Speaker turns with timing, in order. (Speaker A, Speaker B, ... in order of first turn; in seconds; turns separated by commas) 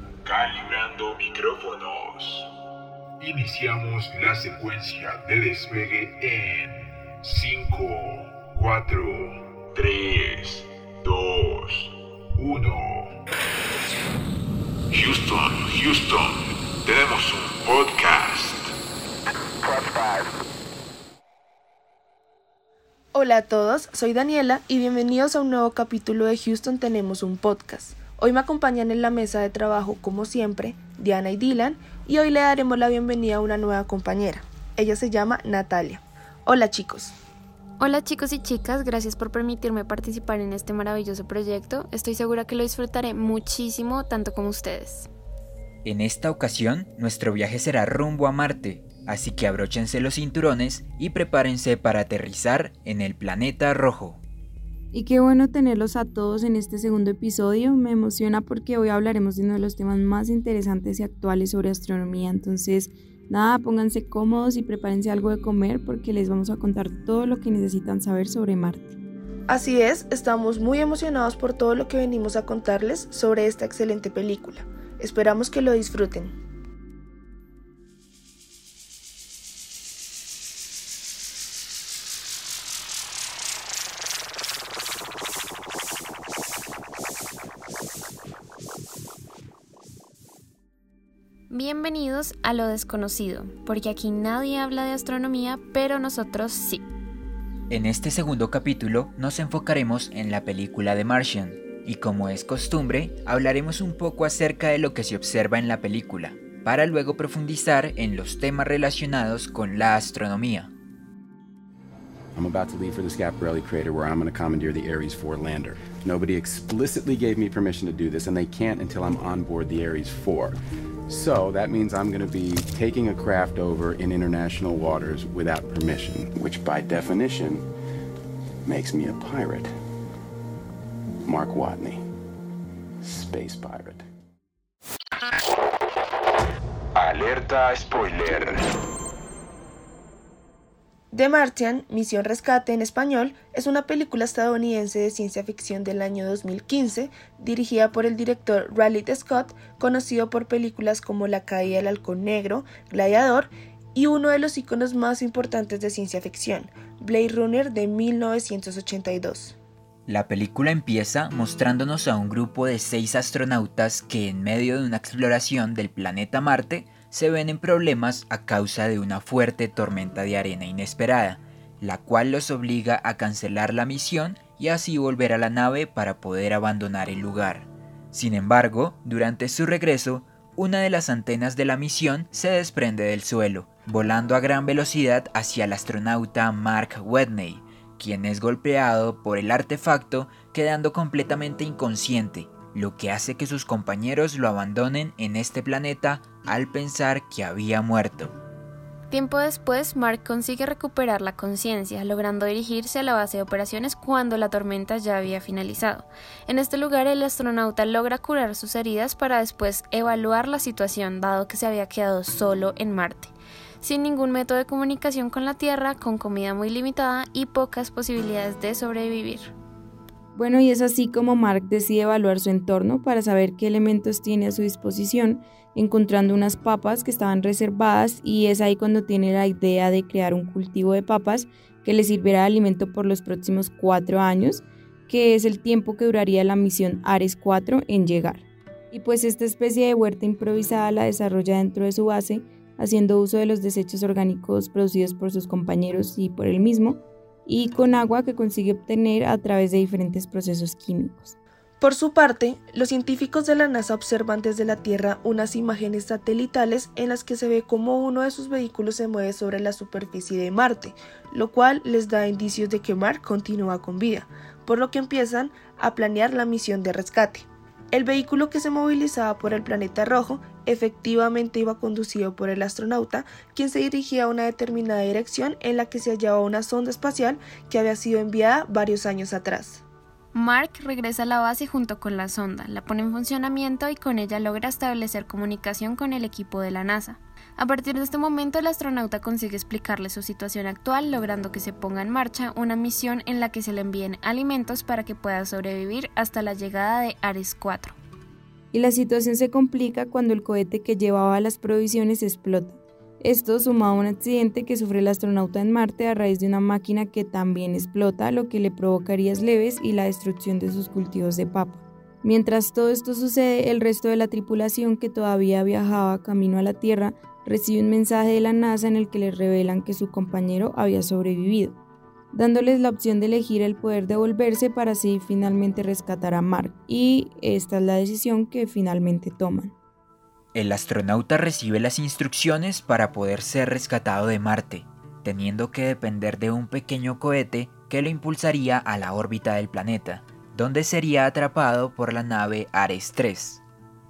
Speaker A: 0.2-2.5, Speaker A: 3.2-13.1, Speaker A: 14.9-18.7, Speaker A: 19.6-20.3, Speaker B: 23.1-37.1, Speaker C: 37.8-45.1, Speaker D: 45.8-54.2, Speaker E: 54.9-68.9, Speaker B: 69.5-76.3, Speaker C: 91.5-96.8, Speaker D: 97.7-110.7, Speaker F: 112.3-127.6, Speaker F: 128.7-129.7, Speaker F: 131.2-132.0, Speaker F: 133.0-134.0, Speaker A: 136.9-138.6, Speaker B: 141.1-159.6, Speaker D: 160.1-198.3, Speaker C: 199.1-219.5, Speaker E: 220.3-251.3, Speaker B: 251.8-279.8, Speaker C: 280.3-297.9, Speaker E: 298.7-321.8, Speaker E: 322.3-329.7, Speaker D: 330.5-343.6